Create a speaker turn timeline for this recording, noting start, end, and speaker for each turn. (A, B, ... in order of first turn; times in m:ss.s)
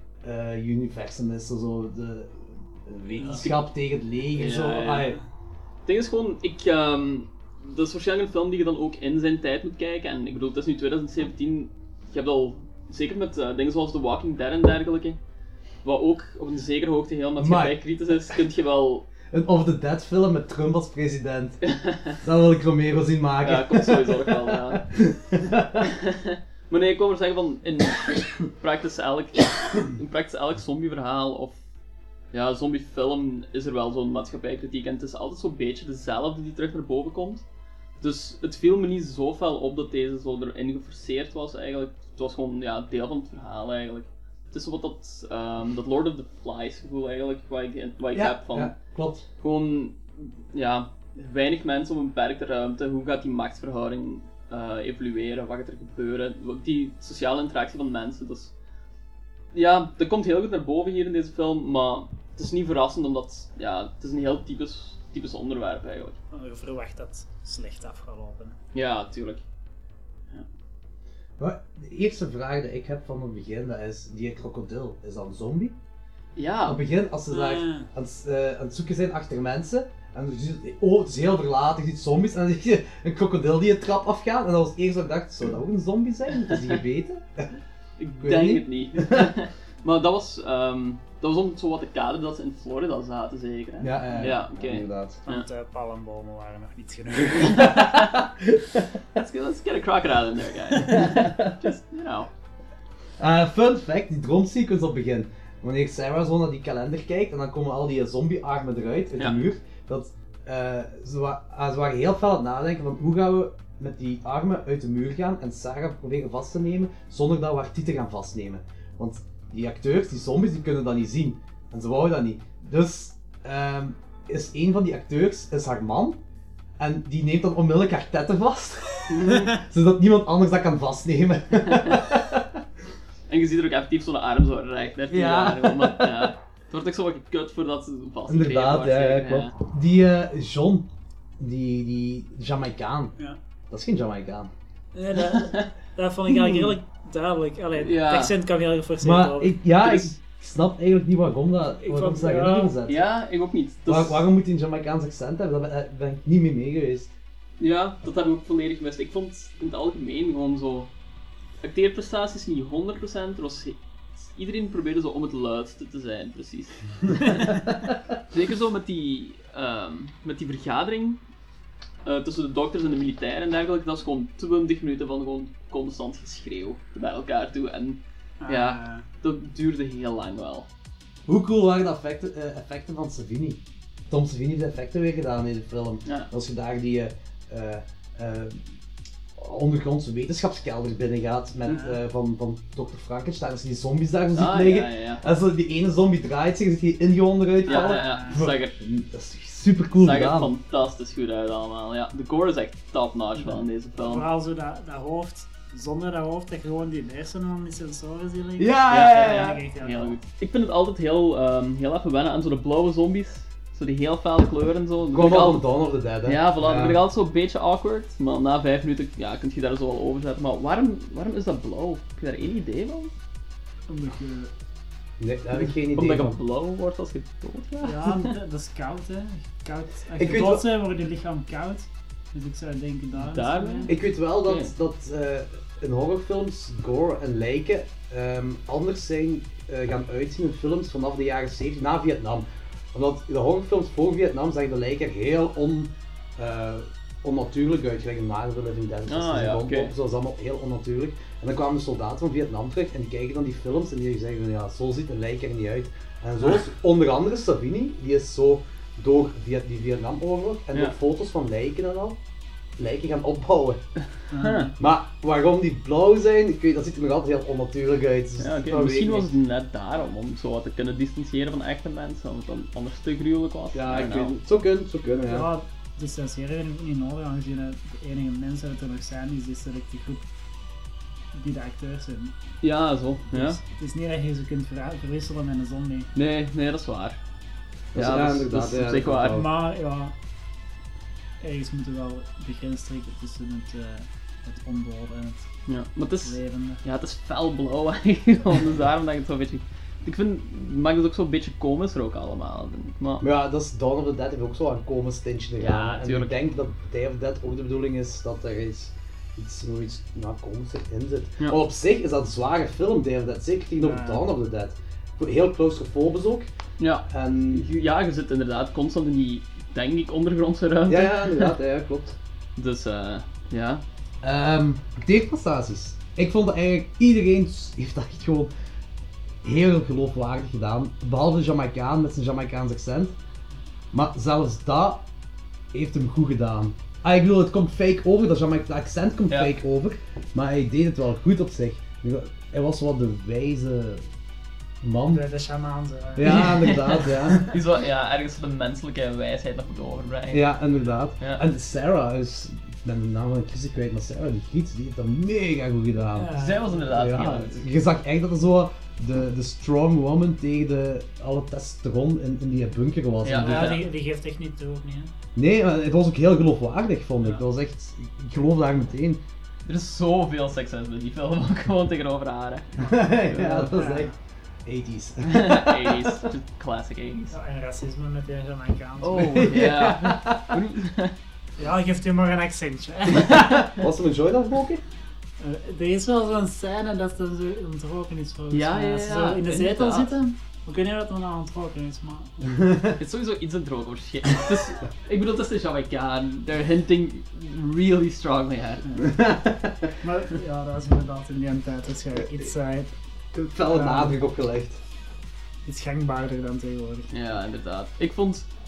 0:00.2-0:05.2 A
0:03.2-0:03.6 B
0:04.3-0:05.2 B
0:05.9-0:15.2 B
0:15.8-0:19.1 B
0:17.4-0:17.8 A
0:19.3-0:21.6 A
0:21.6-0:22.2 B
0:22.2-0:25.9 A
0:23.4-0:24.8 B
0:25.8-0:31.6 B
0:32.3-0:37.4 B
0:38.0-0:48.8 B
0:48.1-0:49.3 A
0:49.4-0:58.5 B
0:59.5-1:06.2 B
1:06.3-1:08.6 C
1:08.7-1:09.4 B
1:11.4-1:15.8 A
1:16.4-1:16.8 B
1:16.6-1:27.5 A
1:17.3-1:17.9 C
1:26.5-1:26.8 B
1:28.0-1:35.5 B
1:28.2-1:29.3 A
1:33.8-1:35.2 A
1:35.3-1:37.8 C
1:37.4-1:38.8 A
1:37.5-1:38.1 B
1:39.2-1:42.3 B
1:40.8-1:41.5 A
1:43.2-2:06.2 A
1:49.2-1:49.5 B
2:06.8-2:12.6 A
2:09.1-2:09.6 B
2:11.7-2:12.0 B
2:13.3-2:19.6 B
2:15.1-2:16.3 A
2:18.3-2:20.9 A
2:21.4-2:23.1 A
2:23.7-2:24.5 A
2:24.9-2:29.6 C
2:25.3-2:25.7 B
2:26.3-2:26.8 B
2:27.8-2:28.3 B
2:29.0-2:33.0 A
2:29.8-2:30.1 B
2:31.8-2:32.7 C
2:32.9-2:34.3 B
2:33.9-2:37.1 A
2:37.6-2:40.9 B
2:41.6-2:47.7 B
2:48.3-2:51.2 B
2:52.0-3:00.7 B
2:58.4-2:59.1 C
3:01.3-3:08.6 A
3:09.4-3:20.5 A
3:11.7-3:12.0 C
3:14.3-3:15.2 B
3:17.7-3:18.4 C
3:17.7-3:18.8 B
3:20.0-3:24.3 B
3:23.4-3:30.2 C
3:28.6-3:29.6 A
3:28.9-3:35.6 B
3:35.1-3:37.0 A
3:36.2-3:43.1 B
3:43.9-3:44.5 C
3:45.2-3:46.4 A
3:45.6-3:48.3 B
3:47.8-3:53.9 C
3:50.2-3:50.7 A
3:53.2-3:54.7 B
3:53.9-4:22.2 A
4:09.1-4:09.9 B
4:22.8-4:23.8 A
4:24.3-4:24.7 C
4:24.4-4:24.7 B
4:24.8-4:29.3 A
4:28.4-4:34.4 B
4:33.7-4:35.5 A
4:35.3-4:40.2 C
4:41.3-4:42.4 C
4:42.6-4:43.6 B
4:43.3-4:46.1 C
4:46.2-4:47.2 B
4:47.9-4:49.5 A
4:48.0-4:49.4 B
4:49.3-4:50.1 C
4:51.4-4:55.5 C
4:55.7-5:03.2 B
4:56.2-4:56.8 C
5:03.2-5:16.5 A
5:05.6-5:06.4 B
5:13.8-5:14.2 C
5:16.8-5:21.5 B
5:17.1-5:17.7 A
5:20.9-5:22.2 A
5:22.6-5:23.8 B
5:24.2-5:28.5 A
5:29.4-5:33.2 A
5:33.9-5:35.0 A
5:35.7-5:44.1 A
5:44.8-5:45.2 A
5:45.1-5:47.5 C
5:46.2-5:47.4 A
5:46.3-5:50.6 B
5:50.3-6:03.8 A
5:56.2-5:57.3 C
5:56.3-5:57.6 B
6:03.2-6:03.9 B
6:03.4-6:05.1 C
6:05.4-6:09.2 A
6:09.7-6:12.7 B
6:12.8-6:14.1 A
6:13.3-6:13.7 B
6:13.5-6:14.2 C
6:14.7-6:16.2 A
6:15.3-6:17.3 B
6:17.3-6:19.5 C
6:19.0-6:21.2 B
6:19.1-6:20.5 A
6:21.6-6:23.7 C
6:23.2-6:24.8 A
6:25.4-6:32.6 C
6:28.5-6:30.2 B
6:32.5-6:33.0 A
6:33.0-6:39.0 B
6:38.8-6:39.3 C
6:39.0-6:39.9 A
6:40.0-6:42.9 C
6:43.3-6:44.8 A
6:43.6-6:44.2 C
6:45.7-6:47.1 C
6:47.1-6:48.5 B